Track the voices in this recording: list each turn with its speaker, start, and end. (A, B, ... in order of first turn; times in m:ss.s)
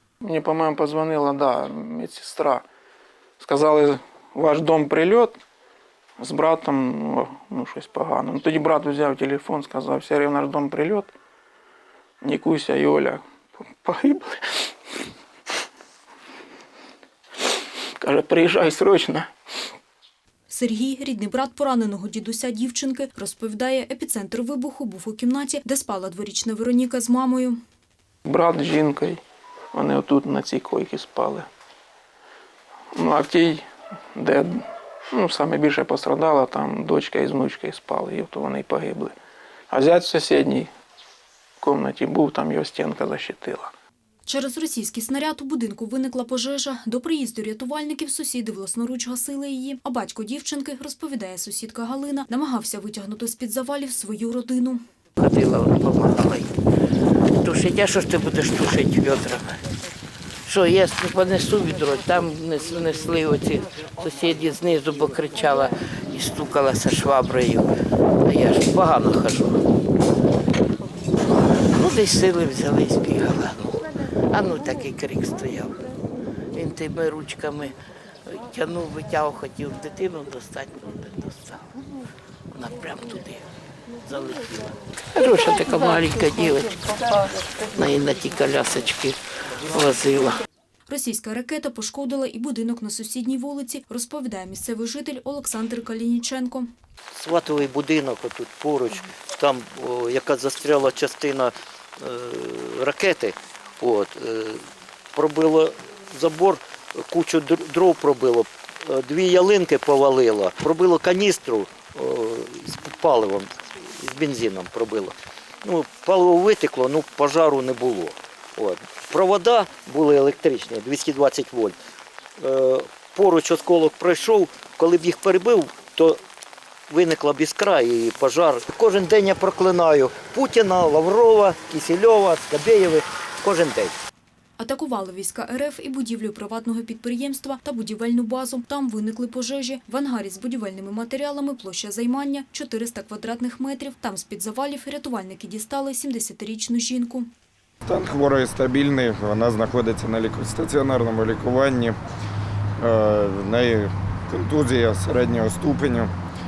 0:00.2-0:02.6 A
0:03.4-0:05.4 A
0:06.2-0:11.1 A
0:12.2-0:14.7 A
0:18.0-0:19.3 A
0:20.5-0:27.6 B
0:28.2-0:29.2 A
0:29.7-0:31.5 A
0:32.9-0:39.1 A
0:39.7-0:40.7 A
0:41.6-0:43.7 A
0:44.3-0:54.8 B
0:55.2-0:56.5 C
0:57.4-0:59.6 C
1:00.4-1:07.6 C
1:08.2-1:09.6 C
1:11.3-1:15.8 C
1:16.5-1:17.8 C
1:18.3-1:21.8 C
1:22.5-1:23.5 C
1:24.0-1:30.4 C
1:30.9-1:36.7 B
1:37.1-1:44.6 D
1:45.1-2:01.8 D
2:02.4-2:06.2 D
2:06.9-2:13.9 D
2:14.6-2:27.3 B
2:27.8-2:32.0 E
2:32.8-2:36.1 E